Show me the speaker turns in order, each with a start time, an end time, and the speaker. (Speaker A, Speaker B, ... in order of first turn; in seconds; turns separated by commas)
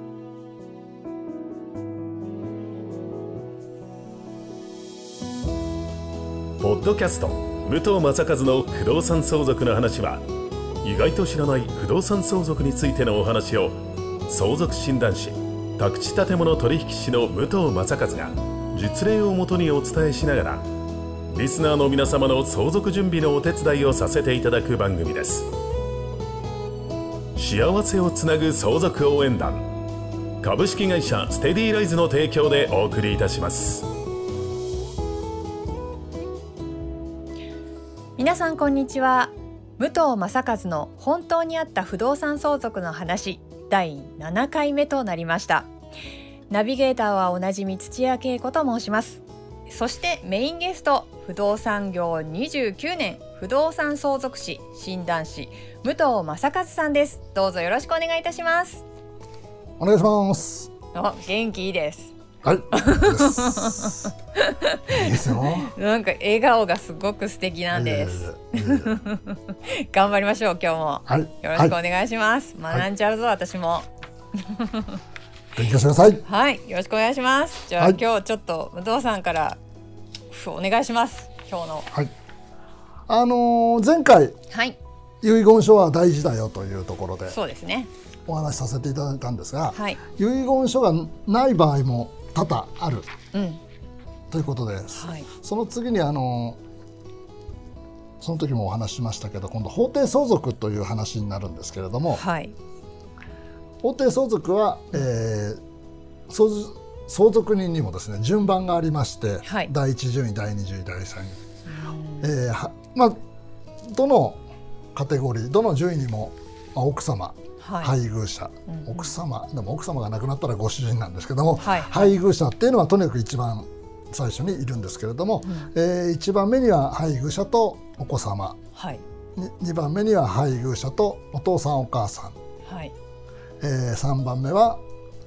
Speaker A: 6.6-10.2, Speaker A: 10.8-13.8, Speaker A: 14.3-20.6, Speaker A: 21.3-25.5, Speaker A: 27.4-29.6, Speaker A: 30.4-33.9, Speaker B: 38.2-45.7, Speaker B: 46.5-58.8, Speaker C: 59.8-60.7, Speaker B: 60.9-62.1, Speaker C: 62.4-64.1, Speaker B: 62.7-75.0, Speaker C: 64.9-65.7, Speaker C: 67.7-69.0, Speaker C: 71.1-71.8, Speaker C: 75.5-76.2, Speaker B: 76.2-79.6, Speaker B: 80.3-81.9, Speaker C: 83.1-84.3, Speaker B: 84.5-84.8, Speaker C: 85.2-87.4, Speaker B: 87.3-87.9, Speaker C: 88.3-93.1, Speaker B: 89.7-90.0, Speaker B: 93.3-93.6, Speaker C: 94.3-96.6, Speaker B: 94.9-95.3, Speaker C: 98.2-102.2, Speaker B: 102.1-102.5, Speaker C: 103.8-105.6, Speaker C: 106.3-111.4, Speaker B: 109.4-109.7, Speaker B: 111.7-112.3, Speaker C: 112.2-113.2, Speaker C: 113.8-114.4, Speaker C: 114.9-128.6, Speaker B: 117.6-118.0, Speaker B: 118.7-119.1, Speaker B: 121.5-122.2, Speaker B: 125.4-125.7, Speaker B: 128.7-129.0, Speaker C: 129.3-132.4, Speaker B: 132.6-132.9, Speaker C: 133.6-134.8